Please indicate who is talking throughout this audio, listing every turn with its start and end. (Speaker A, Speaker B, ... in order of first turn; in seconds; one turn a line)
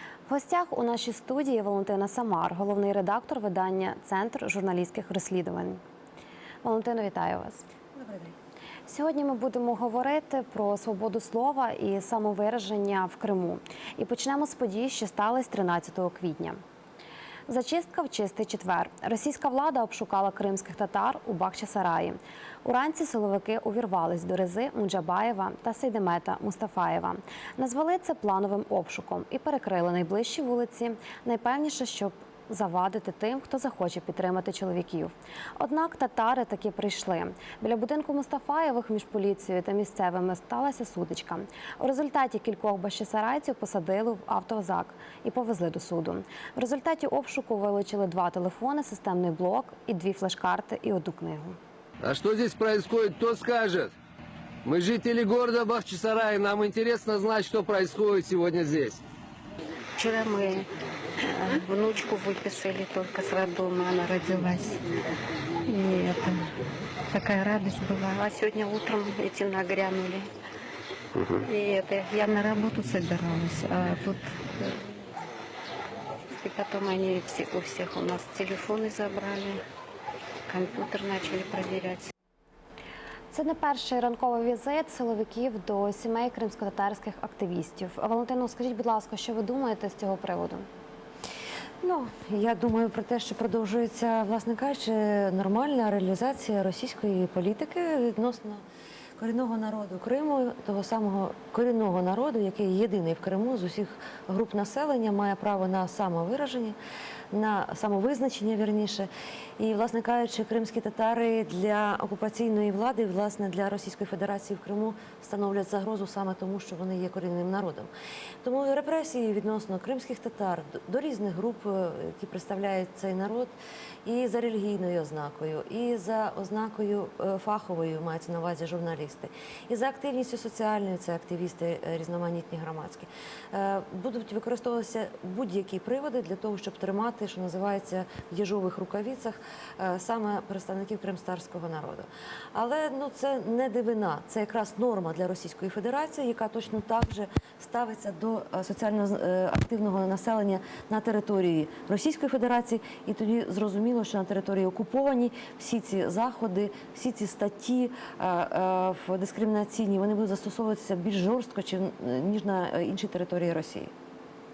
Speaker A: 0.3-5.8
Speaker A: 6.6-7.6
Speaker B: 8.0-8.3
Speaker A: 8.9-16.6
Speaker A: 17.5-51.6
Speaker C: 52.0-53.9
Speaker C: 54.6-59.0
Speaker D: 60.0-60.7
Speaker D: 61.2-64.8
Speaker D: 65.7-66.5
Speaker D: 67.1-70.2
Speaker C: 71.2-71.4
Speaker D: 71.4-74.8
Speaker D: 76.4-79.6
Speaker D: 80.5-82.1
Speaker A: 83.3-90.7
Speaker B: 91.8-98.6
Speaker B: 99.2-106.8
Speaker B: 107.3-117.9
Speaker B: 118.4-123.5
Speaker B: 124.0-163.9